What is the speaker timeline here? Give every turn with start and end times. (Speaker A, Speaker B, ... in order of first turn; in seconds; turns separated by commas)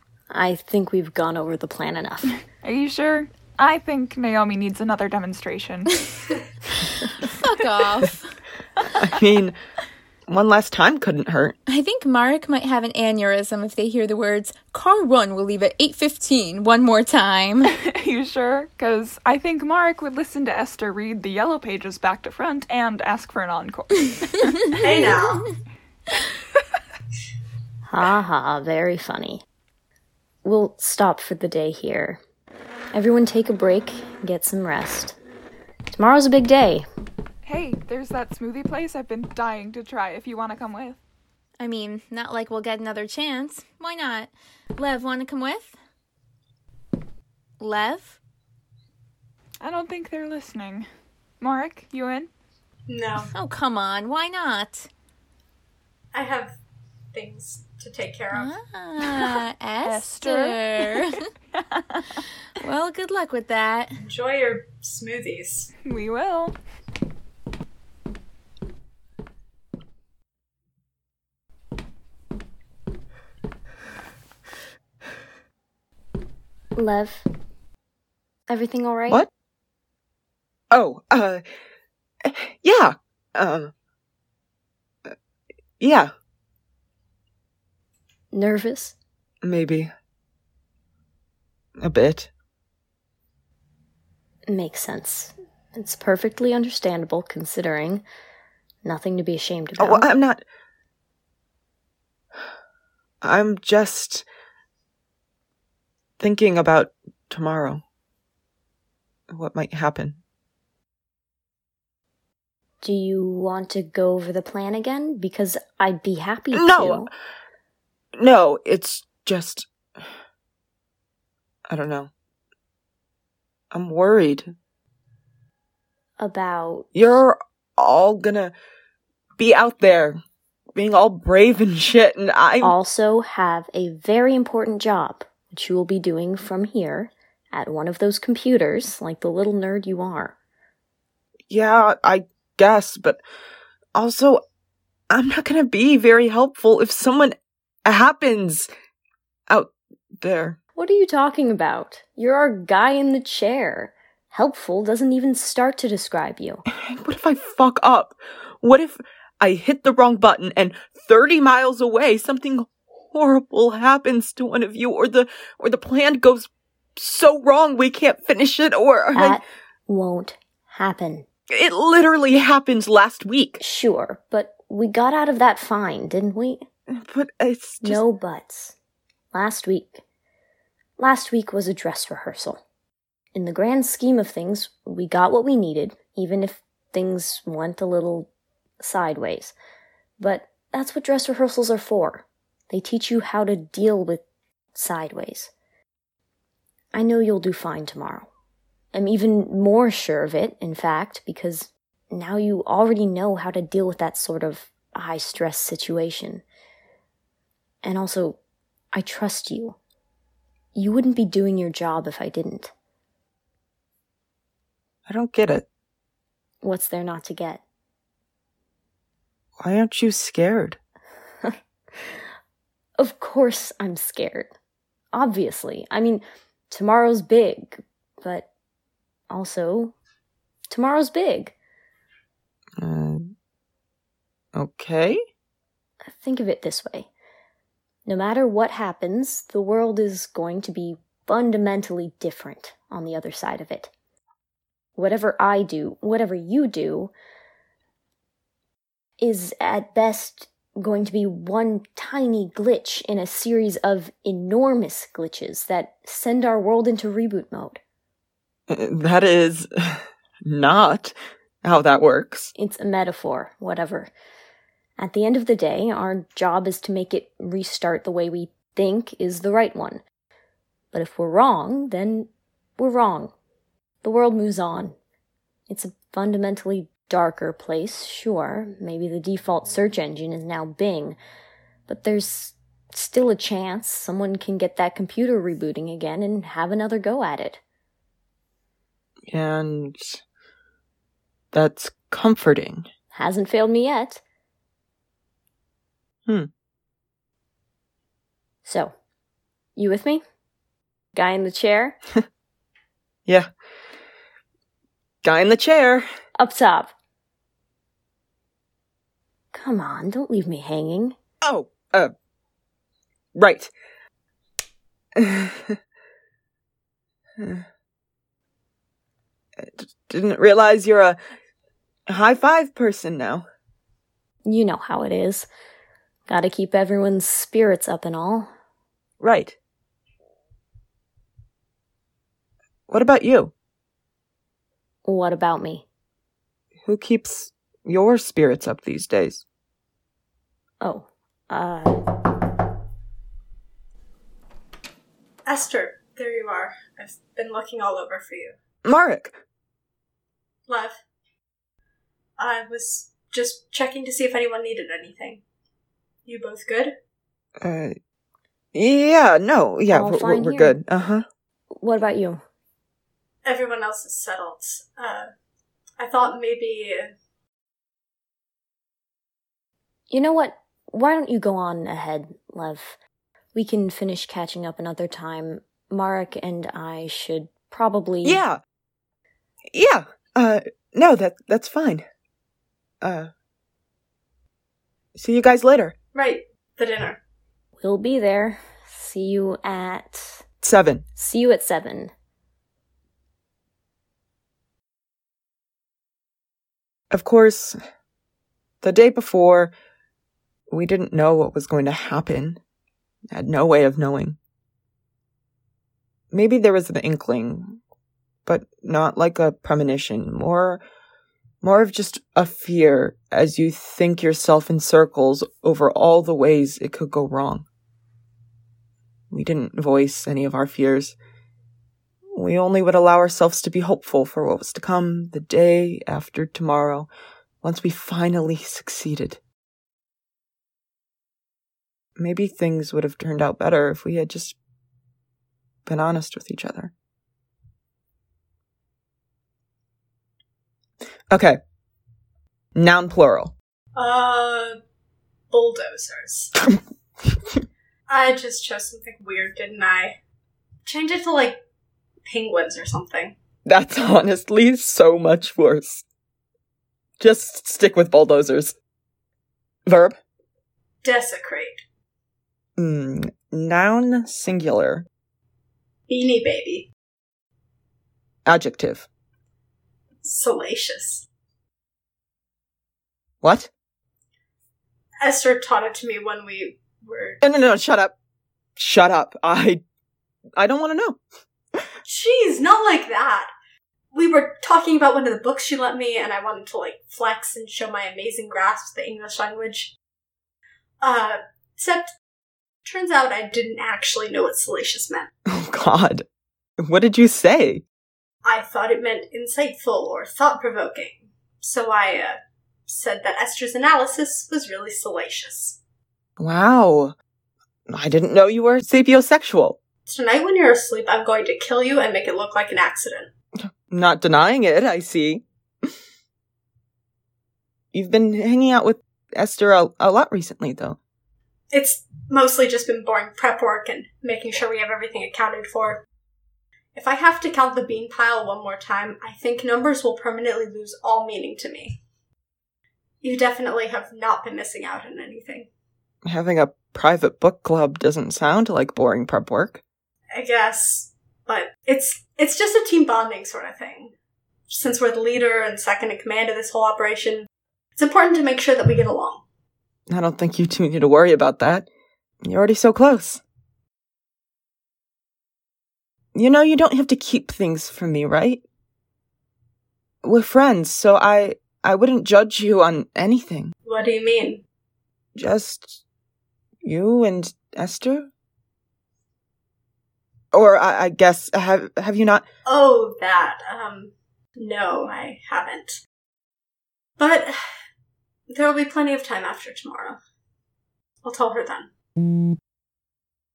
Speaker A: 0.3-2.4, Speaker B: 2.6-6.4, Speaker C: 7.3-8.4, Speaker D: 9.1-9.6, Speaker D: 10.3-11.6, Speaker C: 11.7-17.7, Speaker B: 17.7-24.8, Speaker E: 24.8-25.4, Speaker A: 27.9-29.4, Speaker A: 30.4-32.2, Speaker A: 32.9-35.2, Speaker A: 35.9-36.9, Speaker B: 37.4-41.0, Speaker C: 41.6-45.8, Speaker C: 47.6-48.2, Speaker B: 49.6-50.9, Speaker B: 51.4-52.3, Speaker E: 52.9-53.3, Speaker C: 53.3-54.9, Speaker E: 56.1-56.6, Speaker E: 57.1-58.5, Speaker C: 58.3-61.2, Speaker B: 59.8-61.1, Speaker C: 62.6-63.9, Speaker E: 64.0-65.7, Speaker B: 65.8-66.6, Speaker A: 76.8-77.3, Speaker A: 78.5-79.2, Speaker D: 80.7-81.4, Speaker D: 82.2-83.7, Speaker D: 85.8-86.1, Speaker A: 88.3-89.0, Speaker D: 89.4-89.9, Speaker D: 91.8-92.3, Speaker A: 94.5-98.0, Speaker A: 98.8-100.1, Speaker D: 99.8-100.4, Speaker D: 103.2-104.3, Speaker D: 106.2-107.8, Speaker D: 109.3-110.2, Speaker A: 112.8-117.1, Speaker D: 116.5-117.1, Speaker D: 118.2-119.7, Speaker D: 121.7-122.1, Speaker D: 123.7-124.5, Speaker A: 126.2-127.1, Speaker D: 127.0-128.5, Speaker D: 129.4-130.2, Speaker D: 130.7-132.7, Speaker A: 132.6-140.3, Speaker D: 141.5-143.2, Speaker D: 143.9-144.4, Speaker D: 145.1-148.7, Speaker D: 149.5-150.6, Speaker A: 150.7-156.7, Speaker D: 156.7-169.4, Speaker A: 169.2-171.3, Speaker D: 171.5-173.6, Speaker A: 173.6-176.7, Speaker D: 176.9-178.0, Speaker A: 177.8-178.7, Speaker A: 179.3-180.0, Speaker A: 181.0-182.6, Speaker A: 183.3-189.5, Speaker A: 190.2-194.2, Speaker A: 194.7-195.5, Speaker A: 196.9-198.3, Speaker A: 198.9-206.4, Speaker A: 207.8-208.4, Speaker A: 208.9-209.8, Speaker A: 210.7-212.7, Speaker D: 215.1-215.7, Speaker A: 216.6-217.6, Speaker D: 219.6-220.8, Speaker A: 221.4-222.1, Speaker A: 223.0-224.5, Speaker A: 225.1-228.5, Speaker A: 229.3-229.9, Speaker A: 230.7-231.5, Speaker D: 232.8-233.3, Speaker D: 234.5-235.2, Speaker A: 236.1-237.1, Speaker A: 238.0-243.9, Speaker A: 245.0-247.1, Speaker A: 249.2-257.8, Speaker D: 258.7-262.5, Speaker A: 262.5-264.1, Speaker A: 265.0-270.0, Speaker A: 270.9-273.3, Speaker A: 274.0-275.0, Speaker A: 275.7-281.2, Speaker A: 281.9-287.6, Speaker D: 289.3-290.2, Speaker D: 291.5-292.9, Speaker A: 293.1-294.2, Speaker A: 298.6-298.9, Speaker A: 299.8-300.2, Speaker A: 301.1-302.0, Speaker D: 305.2-306.1, Speaker A: 306.4-306.9, Speaker A: 309.5-311.1, Speaker D: 311.4-312.1, Speaker D: 313.4-313.7, Speaker D: 315.1-315.8, Speaker D: 317.4-317.6, Speaker D: 319.6-321.2, Speaker D: 322.1-323.5, Speaker A: 324.4-325.5, Speaker A: 326.3-328.5, Speaker D: 329.2-329.6, Speaker D: 332.9-333.5, Speaker A: 335.0-335.9, Speaker D: 336.9-339.4, Speaker A: 340.8-342.0, Speaker E: 345.4-348.5, Speaker D: 348.8-349.4, Speaker E: 350.7-351.0, Speaker E: 352.4-355.4, Speaker E: 356.2-356.9, Speaker D: 357.6-358.0, Speaker D: 358.7-361.2, Speaker A: 359.9-360.8, Speaker A: 361.8-362.4, Speaker E: 363.4-365.3, Speaker E: 366.0-367.1, Speaker A: 370.1-373.0, Speaker A: 373.5-378.4, Speaker D: 378.2-378.6, Speaker D: 379.7-382.1, Speaker D: 383.0-383.3, Speaker D: 385.1-385.9, Speaker E: 386.1-387.2, Speaker A: 387.8-390.4, Speaker D: 390.6-391.0, Speaker A: 391.1-392.1, Speaker D: 397.1-397.8, Speaker D: 398.8-399.7, Speaker D: 400.7-402.6, Speaker D: 403.3-404.4, Speaker D: 406.3-407.8, Speaker D: 408.4-410.8, Speaker D: 411.6-417.6, Speaker D: 419.3-421.1, Speaker D: 422.3-427.1, Speaker D: 427.6-429.4, Speaker D: 432.2-434.6, Speaker D: 435.9-436.9, Speaker D: 441.3-441.6, Speaker D: 442.8-443.5, Speaker E: 443.9-444.8, Speaker E: 445.5-446.5, Speaker E: 448.1-450.2, Speaker E: 450.9-451.6, Speaker E: 452.2-453.4, Speaker D: 453.6-456.0, Speaker D: 457.2-458.8, Speaker D: 459.9-460.2, Speaker E: 461.0-461.8, Speaker D: 462.8-465.1, Speaker E: 466.1-466.9, Speaker D: 468.4-469.1, Speaker E: 470.2-471.2, Speaker D: 473.4-473.7, Speaker E: 475.2-477.4, Speaker D: 477.4-478.1, Speaker D: 478.8-479.8, Speaker D: 480.6-481.2, Speaker E: 482.0-483.5, Speaker E: 484.1-489.9, Speaker E: 491.0-492.1, Speaker E: 492.9-495.3, Speaker D: 495.5-496.2, Speaker D: 496.8-497.9, Speaker E: 498.4-505.8, Speaker D: 506.4-507.1, Speaker D: 507.9-509.8, Speaker E: 510.1-513.3, Speaker D: 513.6-515.4, Speaker D: 517.9-521.0, Speaker E: 521.7-526.0, Speaker E: 526.9-532.0, Speaker E: 533.2-535.7, Speaker D: 536.2-539.8, Speaker E: 540.3-544.1, Speaker E: 544.7-549.4, Speaker D: 550.1-551.9, Speaker D: 552.4-553.4, Speaker D: 556.4-558.6, Speaker D: 560.2-563.7, Speaker E: 563.9-564.6, Speaker D: 565.4-566.0, Speaker D: 566.8-568.3, Speaker D: 570.5-572.5, Speaker E: 572.6-576.0, Speaker E: 577.2-577.6, Speaker E: 578.5-580.2, Speaker E: 581.2-581.9